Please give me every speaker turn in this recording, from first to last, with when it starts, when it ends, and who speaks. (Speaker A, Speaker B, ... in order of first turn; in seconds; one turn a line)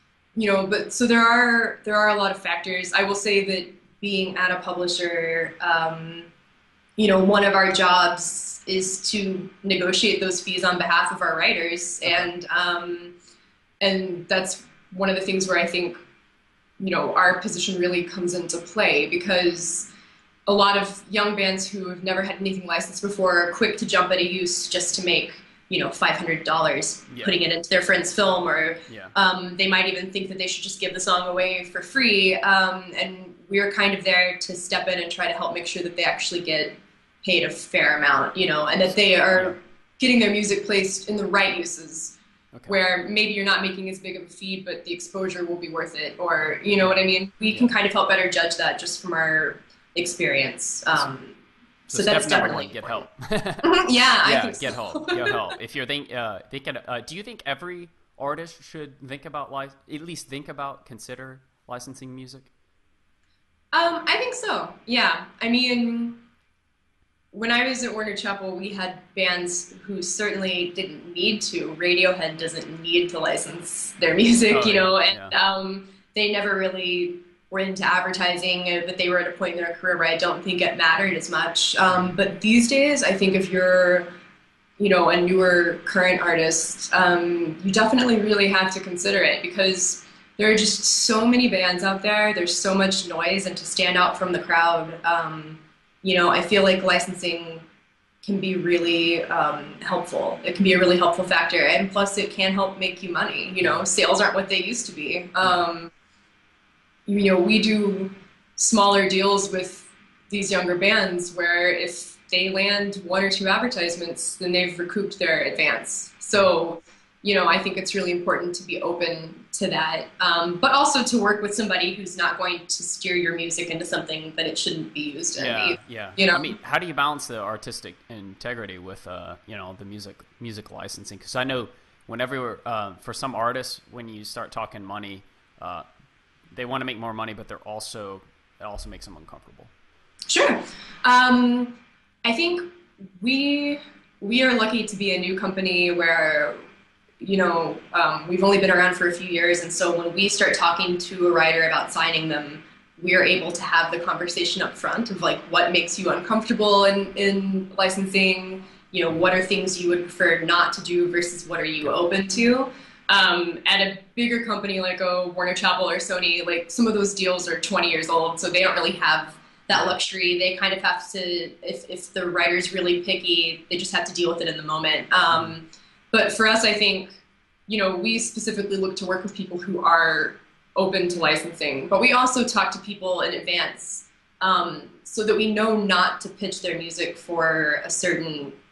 Speaker A: 0.3-6.3
Speaker A: 7.0-13.1
Speaker A: 13.8-16.0
Speaker A: 16.8-19.9
Speaker A: 20.5-53.0
Speaker B: 27.1-27.4
Speaker B: 28.9-29.1
Speaker B: 46.8-47.7
Speaker B: 51.9-53.7
Speaker A: 53.6-55.5
Speaker B: 54.2-62.5
Speaker A: 63.7-66.2
Speaker A: 67.3-84.1
Speaker B: 74.5-75.3
Speaker A: 84.8-97.6
Speaker A: 98.2-105.9
Speaker A: 107.1-126.6
Speaker B: 125.4-135.8
Speaker B: 136.5-139.7
Speaker A: 140.3-142.7
Speaker A: 143.2-146.6
Speaker A: 147.2-188.5